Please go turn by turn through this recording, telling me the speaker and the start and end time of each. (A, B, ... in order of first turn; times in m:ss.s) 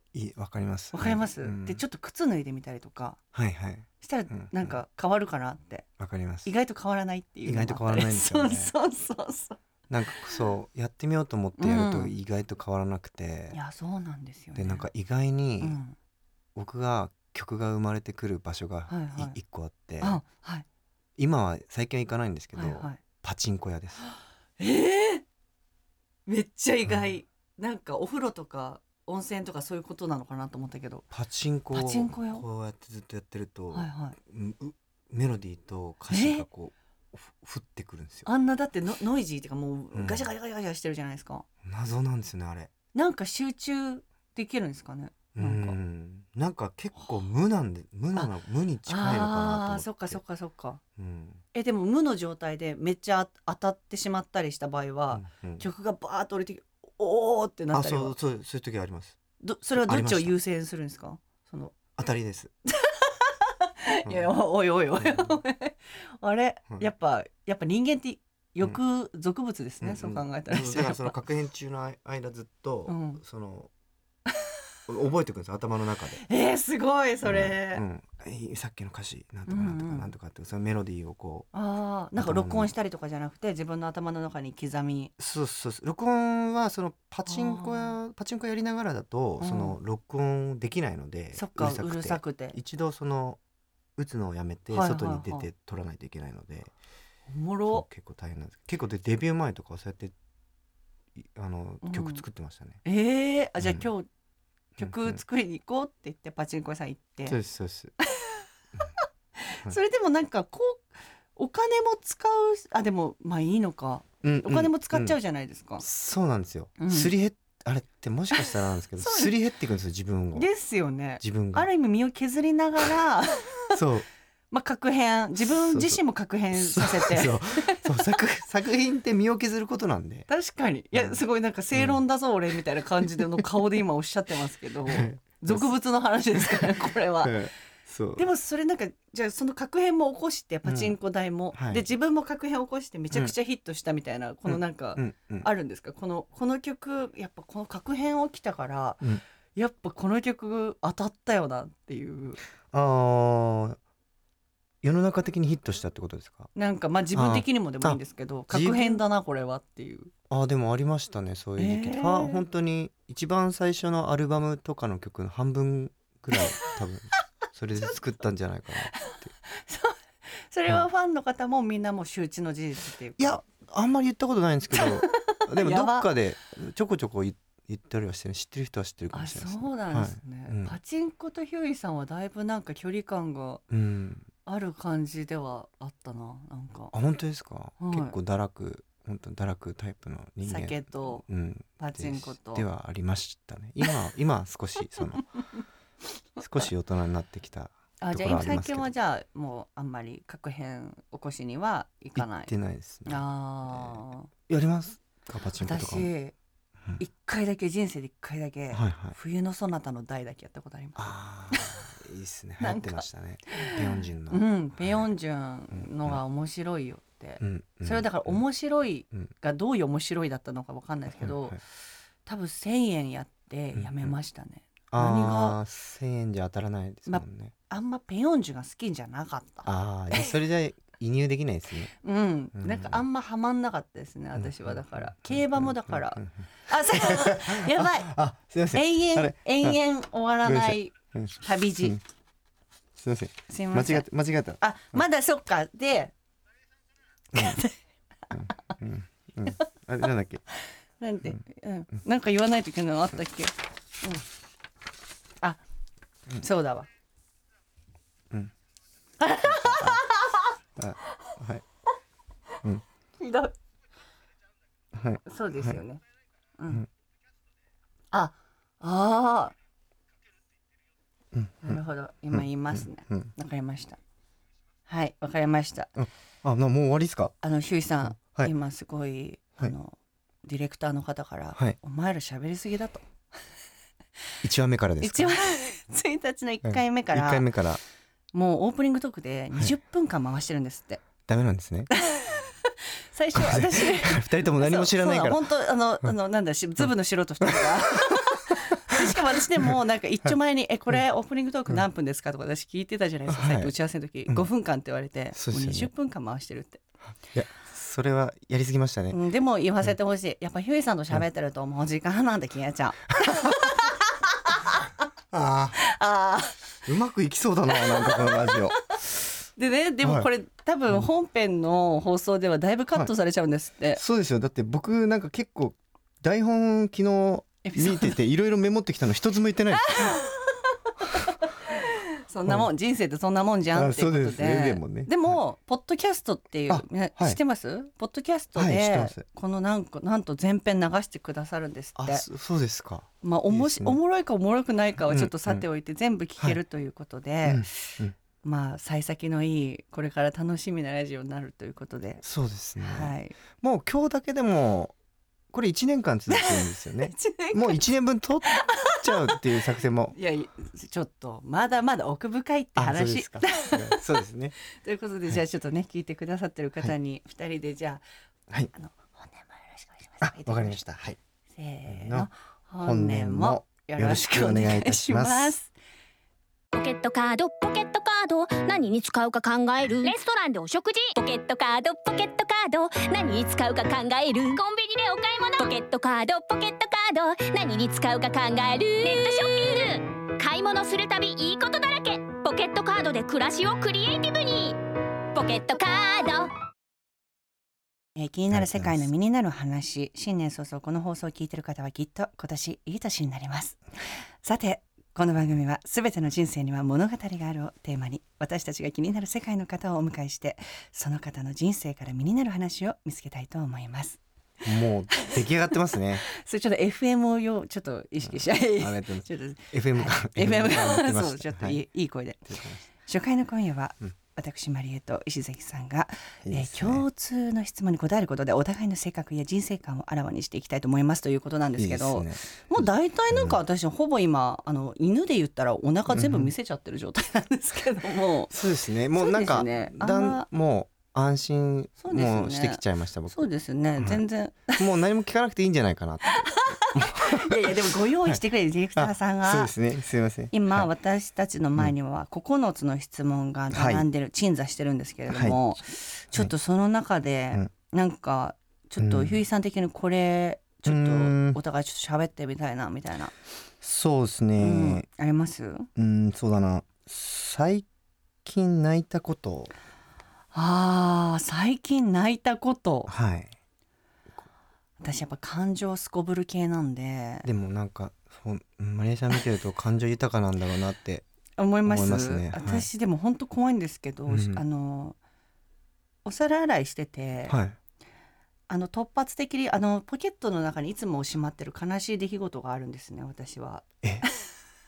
0:00.1-0:01.8 A
0:00.9-0:03.2 B
0:03.3-0:04.7 A
0:04.0-0:05.9 B
0:06.0-0:06.5 A
0:06.4-0:09.6 B
0:07.4-0:08.7 A
0:09.9-0:13.6 A
0:11.6-0:12.2 B
0:13.5-0:14.9 B
0:14.6-0:15.8 A
0:15.6-0:16.0 B
0:16.6-0:20.2 A
0:18.9-0:19.4 B
0:20.0-0:20.7 B
0:21.2-0:24.0 A
0:22.6-0:23.0 B
0:24.6-0:25.2 B
0:26.3-0:31.1 B
0:31.1-0:38.3 A
0:31.7-0:32.4 B
0:33.7-0:34.2 B
0:36.1-0:36.5 B
0:38.2-0:41.4 B
0:39.9-0:40.3 A
0:41.6-0:42.7 A
0:42.9-0:45.8 B
0:45.4-0:50.2 A
0:48.9-0:50.8 B
0:51.0-0:51.4 A
0:51.5-0:58.2 B
0:55.1-0:55.7 A
0:57.7-0:59.2 A
0:59.4-1:01.8 B
0:59.8-1:00.4 A
1:02.0-1:02.5 A
1:02.7-1:11.2 B
1:04.1-1:04.3 A
1:05.0-1:05.3 A
1:09.8-1:13.7 A
1:12.9-1:13.2 B
1:14.9-1:16.2 A
1:16.2-1:17.8 B
1:17.2-1:21.5 A
1:19.5-1:20.1 B
1:21.5-1:25.1 B
1:22.2-1:22.7 A
1:25.2-1:33.4 A
1:27.3-1:28.0 B
1:29.4-1:29.8 B
1:31.4-1:32.6 B
1:34.0-1:36.7 A
1:34.7-1:35.5 B
1:37.3-1:37.9 B
1:37.7-1:40.1 A
1:41.2-1:42.8 A
1:41.8-1:42.2 B
1:42.8-1:44.1 B
1:43.6-1:43.9 A
1:44.8-1:47.4 B
1:44.8-1:45.2 A
1:47.3-1:47.9 A
1:48.0-1:48.4 B
1:49.0-1:55.8 B
1:54.2-1:55.2 A
1:55.8-2:00.5 A
1:56.8-1:57.1 B
1:58.3-1:59.3 B
2:00.3-2:03.8 B
2:01.2-2:01.7 A
2:03.7-2:04.1 A
2:04.5-2:07.8 B
2:05.6-2:06.0 A
2:06.5-2:10.3 A
2:10.3-2:17.5 B
2:11.7-2:12.0 A
2:13.2-2:13.4 A
2:14.9-2:15.7 A
2:16.5-2:18.3 A
2:18.2-2:32.4 B
2:20.6-2:21.0 A
2:21.5-2:21.8 A
2:24.5-2:25.5 A
2:32.7-2:33.8 A
2:34.8-2:36.5 A
2:36.6-2:40.1 B
2:37.2-2:39.0 A
2:40.3-2:49.3 A
2:41.6-2:42.4 B
2:48.9-2:53.4 B
2:53.2-3:00.8 A
2:54.7-2:56.1 B
2:59.1-3:03.6 B
3:03.7-3:04.3 A
3:04.5-3:06.9 B
3:06.9-3:15.3 A
3:07.8-3:08.2 B
3:10.4-3:11.2 B
3:11.8-3:12.6 B
3:16.4-3:18.9 A
3:18.0-3:22.5 B
3:22.2-3:26.1 A
3:23.1-3:24.3 B
3:25.6-3:26.4 B
3:27.0-3:31.8 B
3:28.7-3:29.2 A
3:31.0-3:35.1 A
3:32.6-3:41.6 B
3:35.7-3:36.2 A
3:37.4-3:38.4 A
3:41.2-3:41.6 A
3:42.3-3:45.6 B
3:43.7-3:44.2 A
3:44.9-3:47.5 A
3:47.1-3:50.3 B
3:49.6-3:51.9 A
3:52.0-3:58.1 B
3:52.6-3:53.0 A
3:54.4-3:59.8 A
3:58.7-4:02.0 B
4:00.4-4:02.0 A
4:03.0-4:05.0 A
4:03.5-4:04.0 B
4:04.6-4:06.1 B
4:07.3-4:07.8 B
4:07.3-4:07.6 A
4:08.3-4:10.4 A
4:11.0-4:14.2 B
4:16.4-4:16.9 B
4:19.2-4:20.5 B
4:19.4-4:20.0 A
4:20.8-4:21.6 A
4:23.2-4:23.5 B
4:24.9-4:25.8 A
4:25.2-4:26.0 B
4:26.6-4:26.8 B
4:28.1-4:29.5 B
4:31.3-4:31.8 A
4:31.6-4:34.0 B
4:32.3-4:33.3 A
4:34.9-4:35.9 B
4:36.0-4:37.3 A
4:37.4-4:43.0 B
4:38.2-4:38.5 A
4:44.4-4:45.4 A
4:45.0-4:47.5 B
4:46.6-4:47.8 A
4:48.3-4:51.0 B
4:51.2-4:51.9 A
4:51.9-5:06.8 B
4:53.3-4:55.5 A
4:57.4-4:58.3 A
4:58.9-4:59.2 A
5:03.3-5:03.7 A
5:05.3-5:05.9 A
5:07.3-5:09.2 A
5:09.1-5:14.8 B
5:15.3-5:15.8 A
5:15.8-5:16.7 B
5:16.8-5:18.9 A
5:17.8-5:18.7 B
5:19.6-5:24.0 B
5:20.0-5:20.3 A
5:24.0-5:30.2 A
5:27.6-5:28.2 B
5:29.8-5:42.3 B
5:33.7-5:35.4 A
5:36.7-5:37.4 A
5:38.6-5:39.2 A
5:42.0-5:44.0 A
5:43.2-5:52.2 B
5:45.1-5:45.6 A
5:47.4-5:48.2 A
5:52.2-5:54.9 A
5:52.8-5:53.4 B
5:55.5-6:00.2 A
5:56.3-5:57.9 B
5:58.5-5:59.4 B
6:00.1-6:04.0 B
6:02.8-6:04.6 A
6:04.7-6:08.0 B
6:08.7-6:10.8 B
6:10.2-6:11.2 A
6:11.6-6:15.7 B
6:11.9-6:12.3 A
6:12.8-6:15.6 A
6:16.7-6:34.8 C
6:35.3-6:36.5 C
6:38.2-6:43.8 B
6:38.5-6:39.1 A
6:44.4-6:54.2 B
6:54.6-6:56.2 A
6:55.1-7:18.6 B
6:58.2-7:01.8 A
7:02.5-7:02.9 A
7:06.4-7:07.1 A
7:11.8-7:13.6 A
7:16.1-7:16.5 A
7:18.5-7:23.5 A
7:19.1-7:20.5 B
7:22.0-7:24.8 B
7:24.0-7:24.2 A
7:24.8-7:28.4 A
7:26.3-7:29.7 B
7:29.0-7:30.9 A
7:30.5-7:43.3 B
7:33.7-7:34.1 A
7:35.3-7:35.6 A
7:39.0-7:39.4 A
7:40.9-7:41.6 A
7:43.8-7:45.1 A
7:44.6-7:45.9 B
7:46.0-7:47.9 A
7:48.4-7:49.7 A
7:50.5-7:53.1 B
7:53.1-7:53.5 A
7:55.0-7:57.5 B
7:57.4-8:01.2 A
8:01.6-8:05.2 B
8:01.9-8:02.9 A
8:04.3-8:04.6 A
8:06.2-8:07.6 B
8:07.5-8:07.8 A
8:08.7-8:14.5 B